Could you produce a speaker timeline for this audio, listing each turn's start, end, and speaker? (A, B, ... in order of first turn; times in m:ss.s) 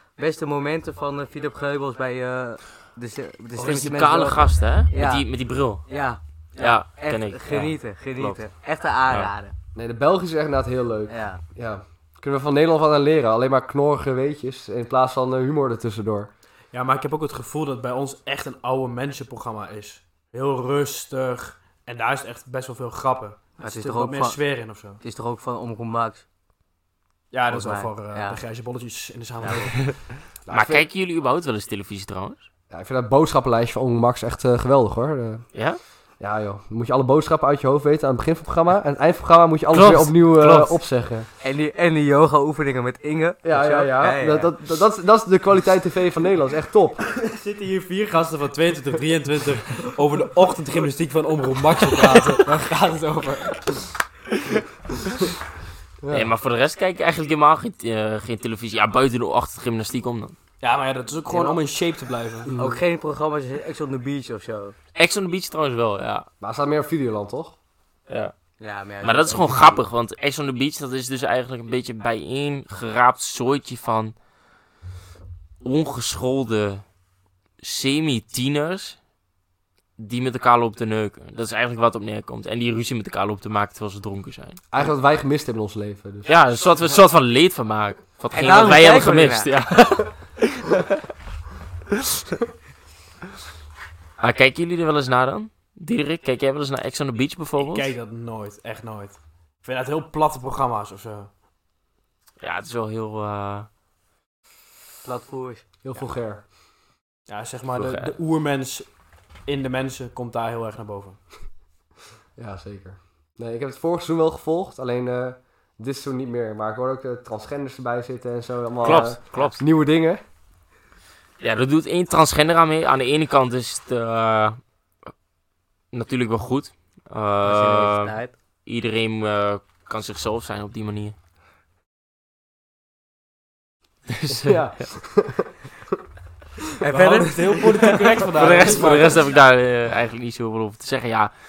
0:00.2-0:05.2 A
0:03.6-0:05.8 B
0:05.9-0:09.5 A
0:06.6-0:08.4 B
0:09.7-0:16.3 C
0:11.1-0:11.4 A
0:16.7-0:25.0 D
0:23.6-0:24.4 A
0:25.0-0:26.2 A
0:27.3-0:29.8 D
0:27.5-0:28.4 A
0:29.4-0:29.7 A
0:30.4-0:30.8 C
0:30.5-0:32.4 B
0:32.7-0:35.4 C
0:35.5-0:35.8 B
0:36.2-0:41.3 C
0:39.7-0:40.8 B
0:41.4-0:44.5 A
0:43.4-0:47.0 C
0:47.2-0:53.9 D
0:51.9-0:52.3 C
0:56.0-0:56.3 C
0:56.1-1:00.3 B
1:00.6-1:02.5 D
1:01.3-1:01.6 A
1:02.5-1:02.8 C
1:02.5-1:04.8 A
1:05.0-1:06.3 B
1:06.4-1:07.6 C
1:08.1-1:08.3 B
1:08.6-1:09.8 A
1:09.0-1:14.1 B
1:15.6-1:16.8 B
1:17.6-1:19.0 B
1:20.0-1:24.6 B
1:24.7-1:26.3 C
1:26.2-1:30.9 B
1:28.3-1:29.5 A
1:34.2-1:37.9 B
1:37.6-1:41.3 D
1:42.4-1:43.7 B
1:45.0-1:45.8 A
1:45.8-1:46.4 C
1:47.3-1:48.9 D
1:47.7-1:48.1 B
1:49.4-1:51.2 D
1:52.4-2:00.2 C
1:58.8-1:59.6 B
2:01.4-2:04.6 B
2:05.9-2:11.1 B
2:07.4-2:08.3 A
2:14.1-2:14.6 B
2:14.3-2:15.5 C
2:16.8-2:17.7 A
2:16.8-2:19.2 D
2:18.2-2:21.3 B
2:18.4-2:19.0 A